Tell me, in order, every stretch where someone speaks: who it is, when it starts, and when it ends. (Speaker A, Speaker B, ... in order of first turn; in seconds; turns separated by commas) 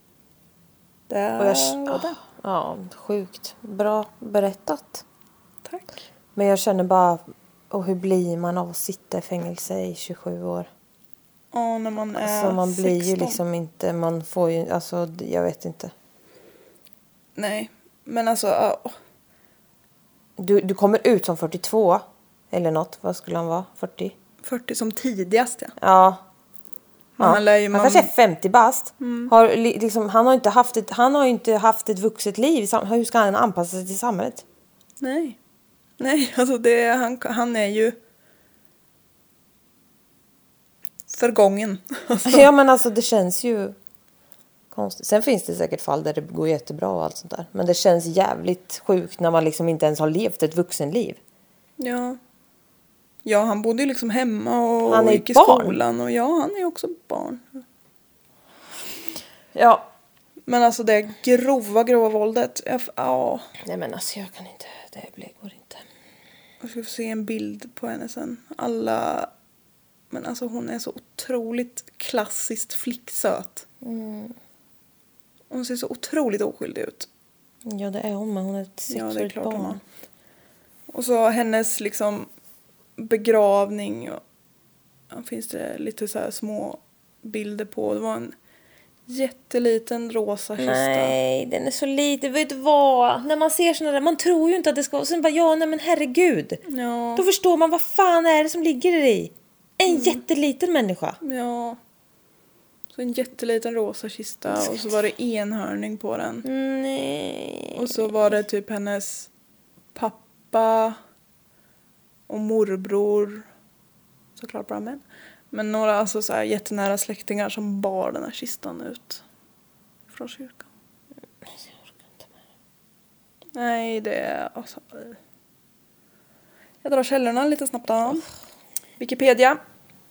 Speaker A: 1.1-2.2, Speaker B: 1.4-5.0, Speaker A: 5.7-5.9, Speaker B: 6.3-10.7, Speaker A: 11.5-13.4, Speaker B: 12.2-15.9, Speaker A: 17.4-18.9, Speaker B: 20.4-24.1, Speaker A: 24.4-25.7, Speaker B: 25.8-26.2, Speaker A: 27.2-28.1, Speaker B: 27.2-34.4, Speaker A: 29.0-29.3, Speaker A: 35.0-35.4, Speaker A: 36.0-38.0, Speaker A: 41.1-42.5, Speaker B: 42.2-43.8, Speaker B: 44.7-51.2, Speaker A: 51.8-52.2, Speaker A: 53.2-57.6, Speaker B: 54.9-55.8, Speaker B: 59.5-59.9, Speaker A: 60.5-63.5, Speaker B: 63.6-65.8, Speaker A: 66.6-69.3, Speaker A: 70.1-73.7, Speaker B: 73.8-74.3, Speaker A: 75.5-77.1, Speaker B: 77.6-79.8, Speaker A: 78.9-79.8, Speaker A: 80.9-82.3, Speaker A: 83.0-84.2, Speaker A: 85.1-88.3, Speaker A: 89.1-91.2, Speaker B: 90.6-96.6, Speaker A: 96.7-97.2, Speaker B: 97.2-101.2, Speaker A: 99.9-100.2, Speaker A: 101.2-101.8, Speaker A: 102.9-106.4, Speaker B: 106.4-107.9, Speaker A: 107.8-109.3, Speaker A: 109.9-111.0, Speaker A: 112.3-113.5, Speaker A: 114.3-119.2, Speaker A: 120.1-120.7, Speaker B: 121.4-122.3, Speaker A: 123.5-125.2, Speaker A: 126.8-128.2, Speaker A: 129.0-129.6